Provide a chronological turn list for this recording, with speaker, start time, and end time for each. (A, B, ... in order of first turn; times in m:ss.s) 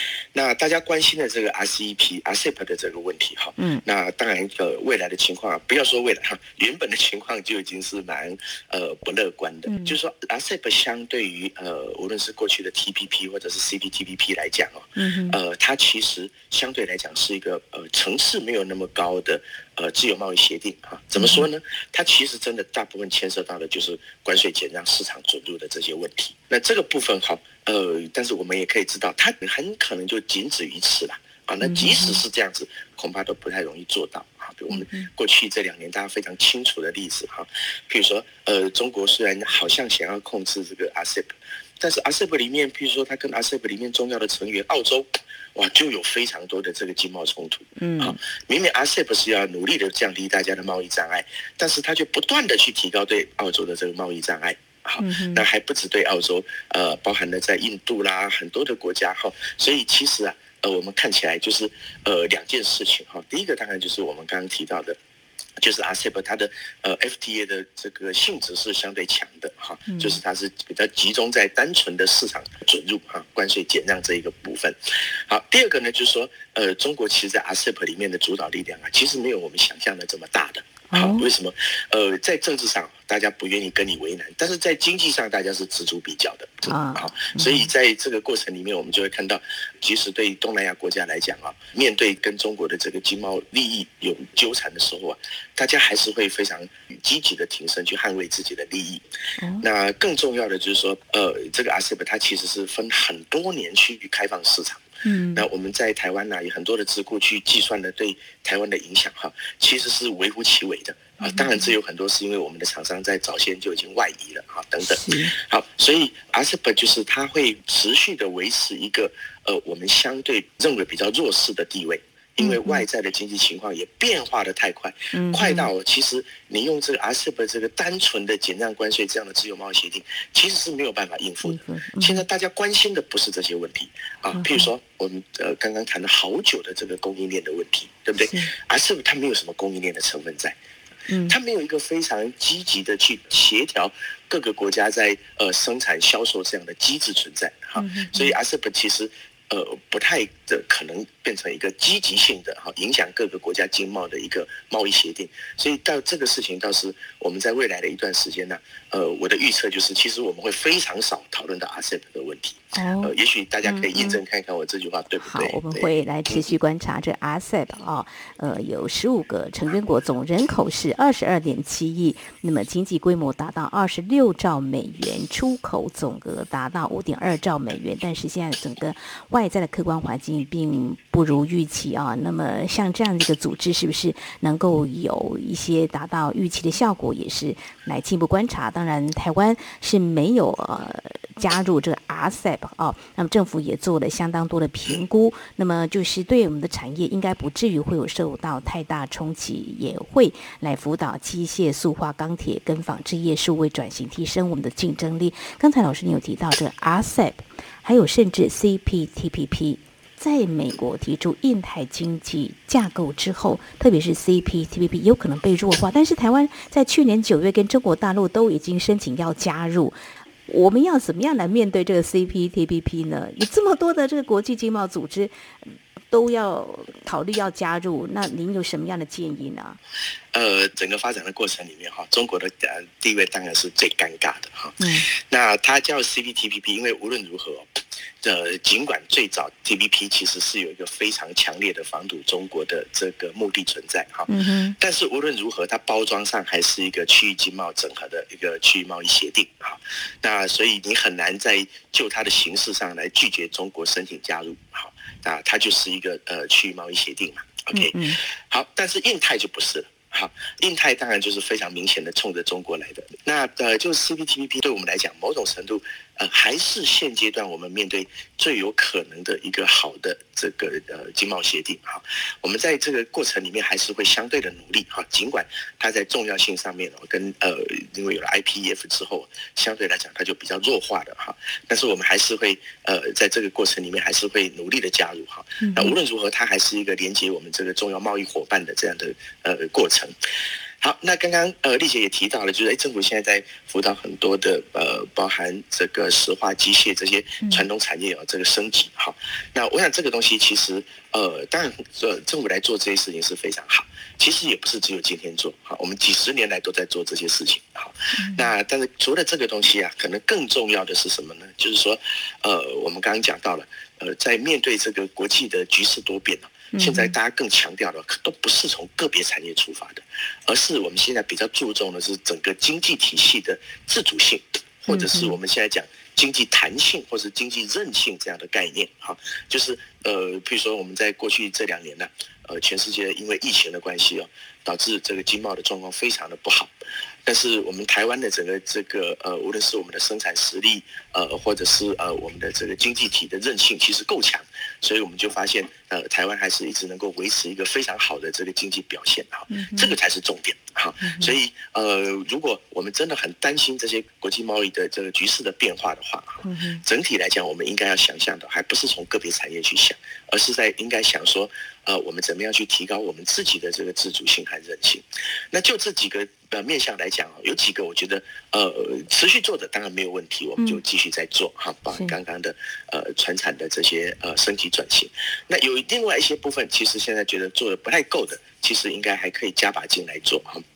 0:00.3-1:05.0 A
0:09.7-0:10.0 B
0:15.0-0:15.4 B
0:21.2-0:21.4 B
0:31.6-0:32.2 B
0:34.7-0:35.1 B
0:47.8-0:48.2 B
0:55.0-0:55.4 B
1:05.6-1:39.0 A
1:09.9-1:10.2 B
1:20.9-1:21.3 B
1:26.7-1:27.7 B
1:39.4-1:39.6 B
1:39.6-1:44.8 A
1:45.0-1:45.5 B
1:45.4-2:20.6 A
1:51.2-1:51.7 B
1:54.8-1:55.3 B
2:02.4-2:02.8 B
2:05.1-2:05.7 B
2:11.4-2:12.2 B
2:14.4-2:14.7 B
2:18.2-2:18.5 B
2:21.1-2:21.4 B
2:21.3-2:46.4 A
2:27.8-2:28.4 B
2:42.7-2:43.1 B
2:43.6-2:44.2 B
2:45.2-3:40.0 B
3:40.5-3:45.3 B
3:46.1-3:49.8 B
3:50.3-4:50.2 A
3:54.8-3:55.1 B
4:04.3-4:04.8 B
4:17.7-4:18.2 B
4:45.6-4:46.0 B
4:50.8-5:36.7 A
5:08.2-5:08.5 B
5:16.7-5:17.1 B
5:24.9-5:25.4 B
5:37.3-6:20.6 A
5:49.5-5:49.9 B
5:51.0-5:51.4 B
5:56.4-5:56.8 B
6:11.9-6:12.2 B